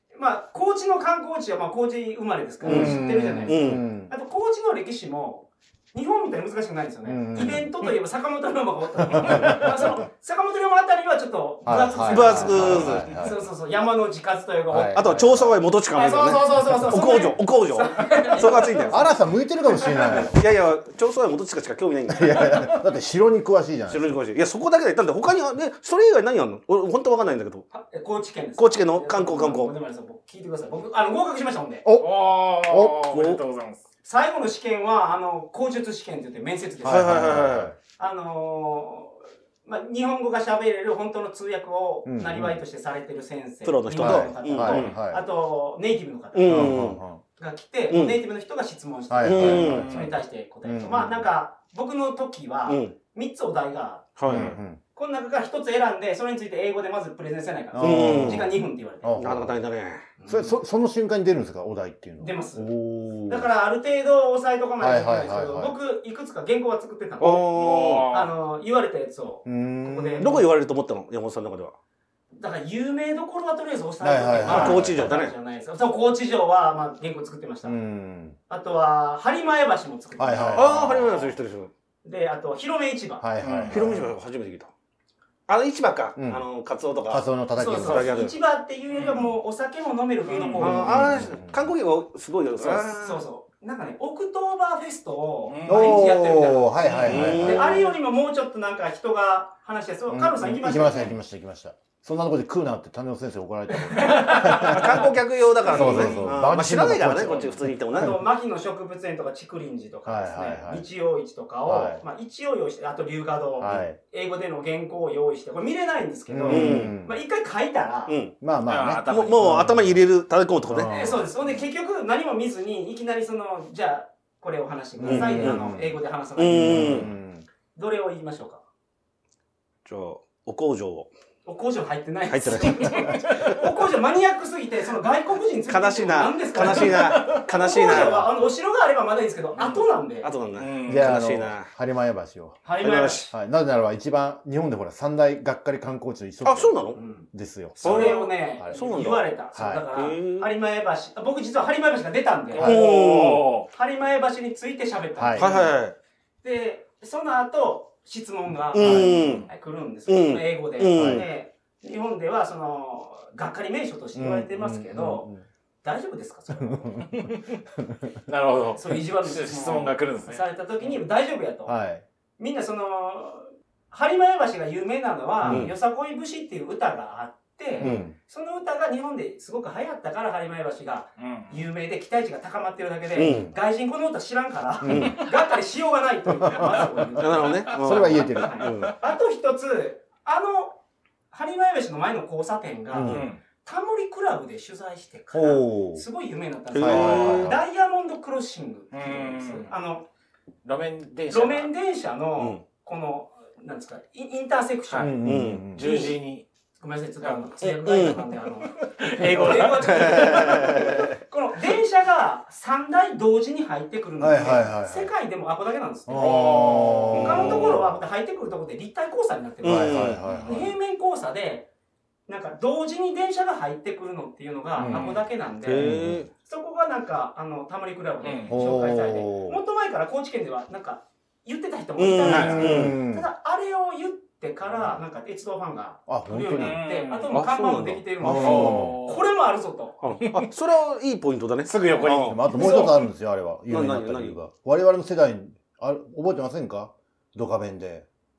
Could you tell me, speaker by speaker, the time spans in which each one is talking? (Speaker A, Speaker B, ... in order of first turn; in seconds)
Speaker A: 0.1-15.1, 15.9-19.1, 19.7-20.3, 27.7-31.8, 34.0-37.4, 38.0-59.1, 60.2-60.6, 62.2-62.7, 63.3-70.4, 72.3-77.7, 78.5-81.1, 82.0-83.2, 87.6-91.2, 92.6-101.1, 103.7-105.1, 105.6-106.2, 107.9-118.2, 120.8-127.1, 127.7-128.6, 131.4-140.3, 142.6-143.3, 146.9-155.7, 156.4-165.3, 165.8-167.1, 168.8-171.7, 172.4-190.8, 191.3-200.1, 201.3-205.2, 205.8-206.2, 206.8-221.7, 222.3-240.0, 242.5-243.0
Speaker B: 2.6-3.8, 12.1-13.1, 14.9-19.0, 20.1-22.7, 23.9-27.6, 28.6-29.7, 33.1-33.4, 36.8-37.7, 43.6-44.9, 46.3-47.0, 47.9-48.2, 49.2-50.0, 52.6-52.9, 54.2-54.6, 57.8-58.5, 59.2-60.0, 67.2-68.1, 70.2-71.7, 74.4-75.3, 80.5-81.7, 83.7-84.7, 85.5-88.3, 90.5-93.2, 97.0-97.9, 104.4-108.2, 116.5-117.0, 118.1-118.3, 119.0-120.9, 125.0-125.6, 126.4-127.1, 129.8-131.1, 132.3-133.6, 135.7-138.3, 140.2-141.7, 142.8-143.3, 146.4-147.0, 147.8-149.3, 149.9-150.5, 152.6-153.5, 155.4-155.9, 158.7-159.5, 160.1-161.2, 175.4-175.7, 177.8-178.1, 183.2-183.5, 184.8-185.2, 187.2-188.9, 196.7-197.6, 205.2-205.6, 207.8-208.2, 209.7-211.0, 217.1-217.8, 219.6-220.2, 225.6-226.3, 232.0-233.0, 237.3-238.0, 240.0-242.4, 243.7-244.3
Speaker C: 2.6-4.1, 7.0-7.7, 9.0-10.0, 11.6-13.4, 14.7-15.6, 18.9-20.4, 22.1-24.1, 31.8-33.0, 36.8-37.8, 42.0-42.6, 43.9-45.2, 46.5-47.2, 49.1-51.3, 54.2-54.8, 57.7-59.6, 60.3-63.5, 64.8-65.7, 69.4-70.5, 74.0-75.1, 77.6-78.4, 80.2-81.3, 83.2-84.1, 86.2-86.4, 87.1-88.2, 90.6-91.7, 95.6-97.8, 100.1-105.1, 105.7-108.2, 110.0-110.8, 111.7-112.0, 113.6-114.0, 116.3-117.2, 118.4-120.0, 120.7-121.3, 125.0-126.0, 126.5-127.4, 137.8-138.2, 140.8-142.6, 143.3-148.8, 149.5-149.8, 152.6-152.8, 155.2-155.5, 158.8-159.4, 160.9-161.2, 164.1-165.4, 166.6-167.3, 171.7-172.0, 175.4-175.7, 177.8-178.1, 184.8-185.2, 186.3-186.9, 187.7-188.8, 192.9-193.2, 195.3-196.0, 196.8-197.6, 205.0-205.8, 214.2-215.1, 216.1-217.8, 219.6-220.7, 224.8-225.2, 225.7-226.2, 228.5-229.6, 232.2-233.3, 236.1-236.8, 238.2-239.1, 242.1-248.1
Speaker D: 32.0-33.8, 49.5-50.1, 67.5-68.3, 83.4-84.0, 88.9-89.3, 90.3-90.9, 95.5-96.1, 96.9-97.2, 105.8-106.1, 118.7-119.7, 136.9-137.4, 140.6-141.2, 152.6-153.7, 167.1-167.5, 168.3-170.4, 181.2-181.6, 193.0-193.4, 198.9-199.7, 200.6-201.7, 204.9-206.4, 207.2-208.2, 208.7-211.1, 216.2-217.5, 220.2-220.6, 224.8-225.2, 228.2-228.6, 232.3-232.7, 236.6-237.4, 238.2-239.2, 240.2-240.5, 241.7-242.8